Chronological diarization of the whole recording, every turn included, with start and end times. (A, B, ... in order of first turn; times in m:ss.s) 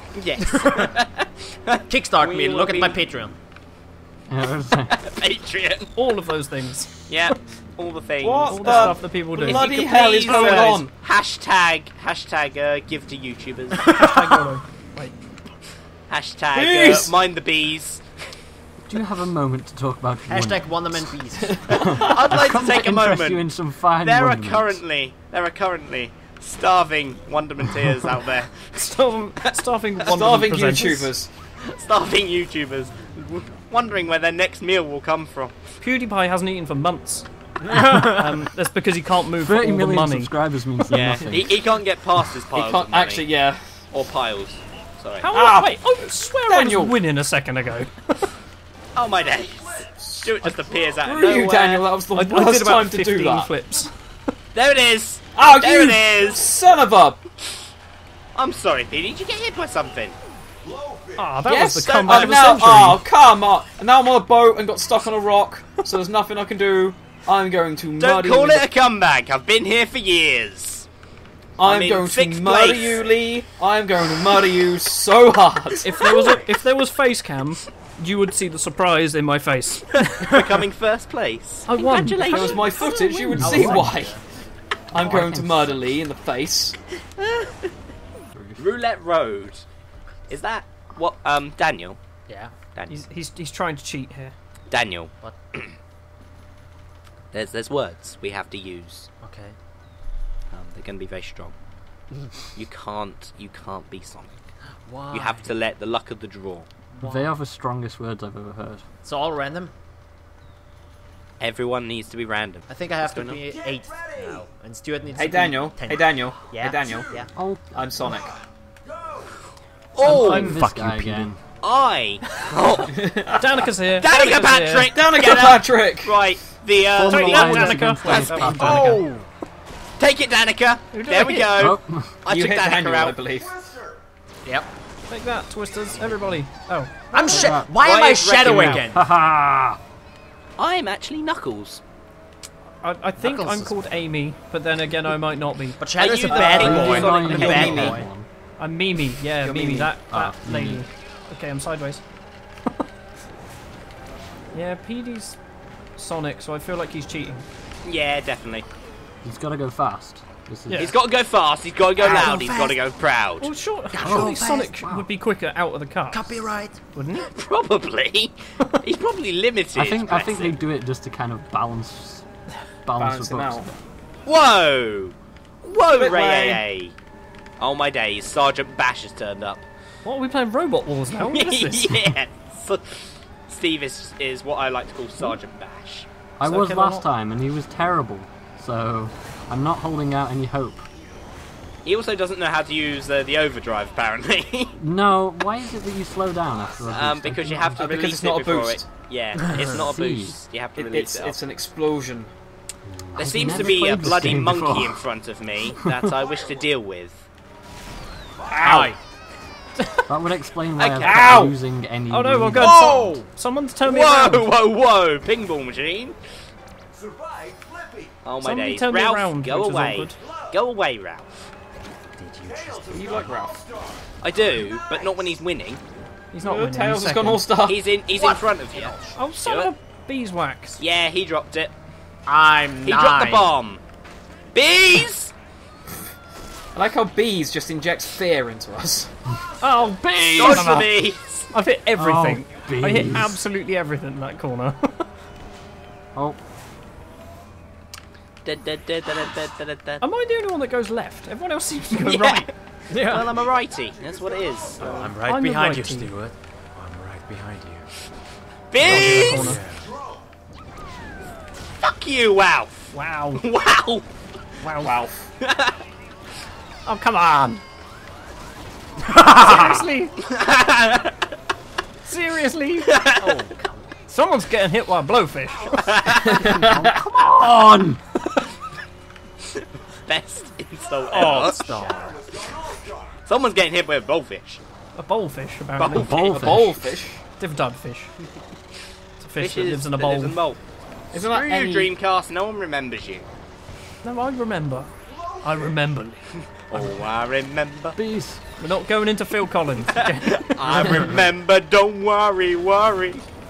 0:00.1-0:01.8 A
0:00.5-0:00.9 B
0:01.9-0:03.3 B
0:02.2-0:03.0 C
0:04.3-0:05.0 D
0:04.9-0:05.9 A
0:05.9-0:07.3 E
0:07.1-0:14.1 A
0:08.2-0:10.9 C
0:08.5-0:09.7 E
0:10.3-0:10.7 E
0:13.9-0:15.1 E
0:16.1-0:18.0 A
0:16.5-0:17.1 C
0:18.9-0:24.8 D
0:20.3-0:21.6 B
0:21.5-0:22.3 C
0:21.7-0:28.7 A
0:28.7-0:31.1 E
0:30.0-0:31.3 C
0:31.6-0:35.6 A
0:35.8-0:40.3 E
0:37.7-0:38.1 B
0:39.4-0:41.6 D
0:40.9-0:43.3 A
0:42.5-0:43.8 C
0:43.9-0:45.3 A
0:45.2-0:48.3 E
0:45.3-0:45.8 C
0:46.5-0:47.0 C
0:48.9-0:51.9 A
0:50.0-0:50.5 C
0:51.0-0:53.5 C
0:52.1-0:53.9 E
0:54.5-0:56.6 A
0:55.4-0:57.2 C
0:58.3-1:00.1 A
1:01.2-1:03.0 E
1:01.4-1:08.6 C
1:01.6-1:02.9 A
1:08.0-1:10.8 A
1:11.6-1:13.1 A
1:11.6-1:16.4 C
1:15.8-1:20.4 E
1:20.2-1:22.9 A
1:21.6-1:23.9 E
1:22.2-1:24.2 C
1:23.4-1:24.0 D
1:23.4-1:24.2 B
1:24.9-1:26.8 C
1:24.9-1:26.0 D
1:27.2-1:27.6 A
1:28.3-1:28.6 D
1:28.6-1:29.6 A
1:30.3-1:32.0 A
1:32.3-1:32.5 B
1:32.7-1:33.0 A
1:32.9-1:34.3 E
1:34.7-1:35.7 A
1:37.3-1:39.1 A
1:39.2-1:39.6 B
1:40.5-1:41.5 A
1:42.5-1:44.4 A
1:44.8-1:45.5 B
1:45.1-1:46.7 A
1:46.9-1:47.3 B
1:47.0-1:48.8 D
1:49.0-1:49.7 B
1:51.4-1:53.4 A
1:52.7-1:57.3 B
1:55.1-1:57.2 C
1:57.3-1:57.9 D
1:57.7-1:58.3 C
1:59.9-2:00.6 A
2:00.0-2:01.4 D
2:00.0-2:01.3 B
2:01.6-2:03.0 A
2:02.9-2:03.6 C
2:03.4-2:04.9 E
2:04.0-2:09.0 A
2:04.9-2:06.2 C
2:07.0-2:09.0 D
2:07.0-2:09.0 E
2:08.2-2:09.3 B
2:10.0-2:13.2 A
2:10.9-2:11.7 E
2:11.5-2:12.2 D
2:12.3-2:13.6 C
2:14.4-2:14.7 B
2:15.1-2:17.6 E
2:17.1-2:19.0 B
2:17.3-2:17.7 D
2:17.6-2:18.9 A
2:18.4-2:19.8 D
2:20.6-2:21.8 A
2:22.8-2:25.8 E
2:23.2-2:23.9 B
2:25.8-2:28.1 B
2:26.0-2:28.0 A
2:26.3-2:28.0 C
2:26.6-2:28.3 D
2:28.6-2:32.0 E
2:29.4-2:29.9 C
2:30.1-2:30.8 D
2:34.5-2:35.4 E
2:36.0-2:37.5 E
2:37.8-2:38.6 A
2:39.2-2:40.9 D
2:40.7-2:40.9 E
2:40.8-2:43.5 A
2:42.0-2:42.8 B
2:43.4-2:47.3 E
2:43.9-2:44.7 B
2:44.0-2:45.1 D
2:46.1-2:46.8 B
2:47.3-2:50.6 A
2:49.7-2:52.2 D
2:52.8-2:53.8 D
2:53.0-2:53.6 C
2:54.2-2:56.9 A
2:56.0-2:56.6 C
2:57.6-2:59.6 A
3:00.0-3:02.1 E
3:01.1-3:06.1 A
3:06.4-3:10.8 D
3:06.4-3:07.0 E
3:11.8-3:14.8 A
3:14.7-3:17.8 D
3:16.9-3:21.4 A
3:17.8-3:18.9 C
3:19.6-3:20.4 D
3:20.7-3:22.3 C
3:22.8-3:25.0 D
3:23.2-3:27.2 A
3:23.5-3:23.8 C
3:25.8-3:26.1 D
3:28.5-3:28.9 C
3:28.6-3:29.0 B
3:29.8-3:30.0 E
3:30.1-3:33.0 D
3:30.8-3:31.4 A
3:31.0-3:31.5 C
3:32.1-3:34.5 E
3:32.6-3:33.3 B
3:33.8-3:36.2 A
3:38.2-3:41.5 A
3:38.4-3:40.2 E
3:42.2-3:43.3 B
3:42.9-3:43.6 C
3:44.2-3:45.8 A
3:46.3-3:47.5 E
3:46.4-3:47.8 C
3:47.6-3:49.7 A
3:48.1-3:49.2 B
3:49.2-3:50.8 E
3:50.8-3:51.7 A
3:52.2-3:53.5 B
3:52.8-3:53.8 A
3:54.5-3:55.3 A
3:56.7-3:59.1 C
3:59.6-4:01.0 E
4:00.3-4:01.5 A
4:01.5-4:05.1 E
4:02.0-4:03.4 D
4:08.4-4:10.0 A
4:10.0-4:12.5 E
4:11.9-4:15.1 A
4:12.9-4:13.3 B
4:14.8-4:17.9 B
4:15.2-4:16.1 E
4:18.7-4:19.5 A
4:18.8-4:19.9 B
4:18.8-4:19.6 E
4:21.8-4:24.0 A
4:22.9-4:23.4 E
4:24.6-4:24.9 E
4:24.6-4:25.2 C
4:25.4-4:25.8 A
4:26.8-4:27.6 E
4:29.1-4:29.6 B
4:29.2-4:30.1 E
4:29.5-4:31.1 A
4:32.0-4:32.9 E
4:32.9-4:33.5 A
4:33.2-4:33.9 B
4:34.1-4:36.4 E
4:35.8-4:36.5 A
4:36.4-4:36.8 C
4:36.4-4:38.0 D
4:39.6-4:41.9 A
4:41.1-4:42.2 B
4:43.2-4:44.6 A
4:45.0-4:46.1 E
4:45.8-4:46.6 A
4:45.9-4:46.8 D
4:46.3-4:47.2 C
4:47.4-4:48.1 E
4:49.2-4:50.4 E
4:49.4-4:50.6 A
4:51.1-4:51.9 C
4:51.1-4:53.3 A
4:54.0-4:56.2 E
4:56.7-4:58.0 A
4:58.0-4:58.4 D
4:58.6-5:01.1 E
4:59.9-5:03.2 A